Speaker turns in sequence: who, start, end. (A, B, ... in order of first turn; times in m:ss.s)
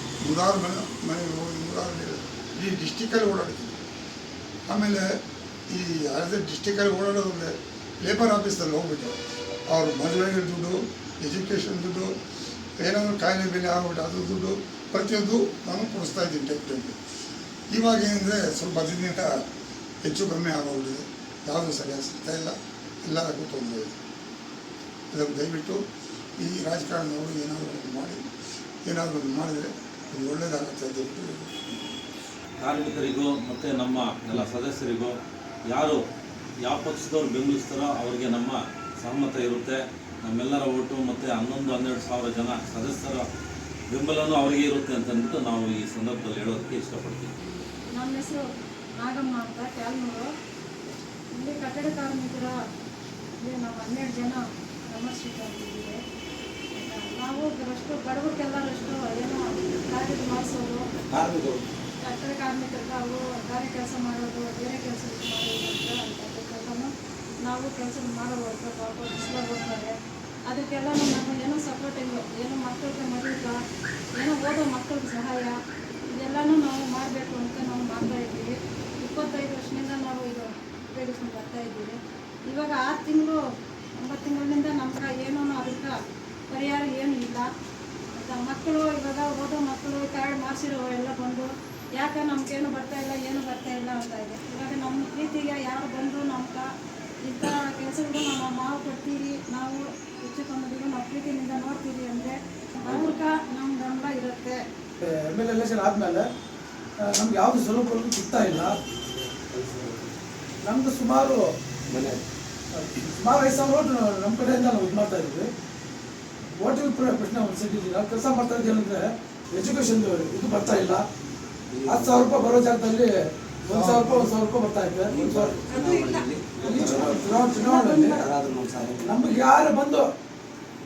0:00.2-0:03.8 A
0:04.7-0:05.0 A
0:05.7-0:09.2 A
0:09.7-0:12.1 A
0:12.8-0:17.0 A
0:17.7-0:19.4 A
0:20.0-0:23.9 A
0:25.1-0:25.8 A
0:26.4-0:28.3 A
0:28.8-0:31.7 A
0:32.6-0:35.2 B
0:35.7-0:36.0 B
0:36.6-0:43.3 B
0:43.9-0:47.3 B
0:47.9-0:48.5 C
0:49.0-0:50.3 C
0:51.4-0:52.5 C
0:53.4-0:56.0 C
0:56.8-1:00.8 C
1:01.1-1:01.6 D
1:02.0-1:06.9 C
1:07.4-1:09.9 C
1:10.5-1:13.6 C
1:14.2-1:15.6 C
1:16.2-1:23.4 C
1:24.0-1:26.0 C
1:26.5-1:27.5 C
1:28.2-1:36.7 C
1:37.2-1:44.6 C
1:45.0-1:46.3 E
1:47.0-1:48.8 E
1:49.6-1:50.0 D
1:50.6-1:51.4 E
1:51.9-1:52.2 D
1:52.7-1:55.5 E
1:56.6-2:01.1 E
2:01.7-2:02.3 D
2:01.9-2:03.1 E
2:03.6-2:05.7 E
2:03.8-2:04.1 D
2:05.1-2:07.3 D
2:05.7-2:08.2 C
2:06.6-2:08.3 E
2:08.1-2:09.1 D
2:09.0-2:10.1 E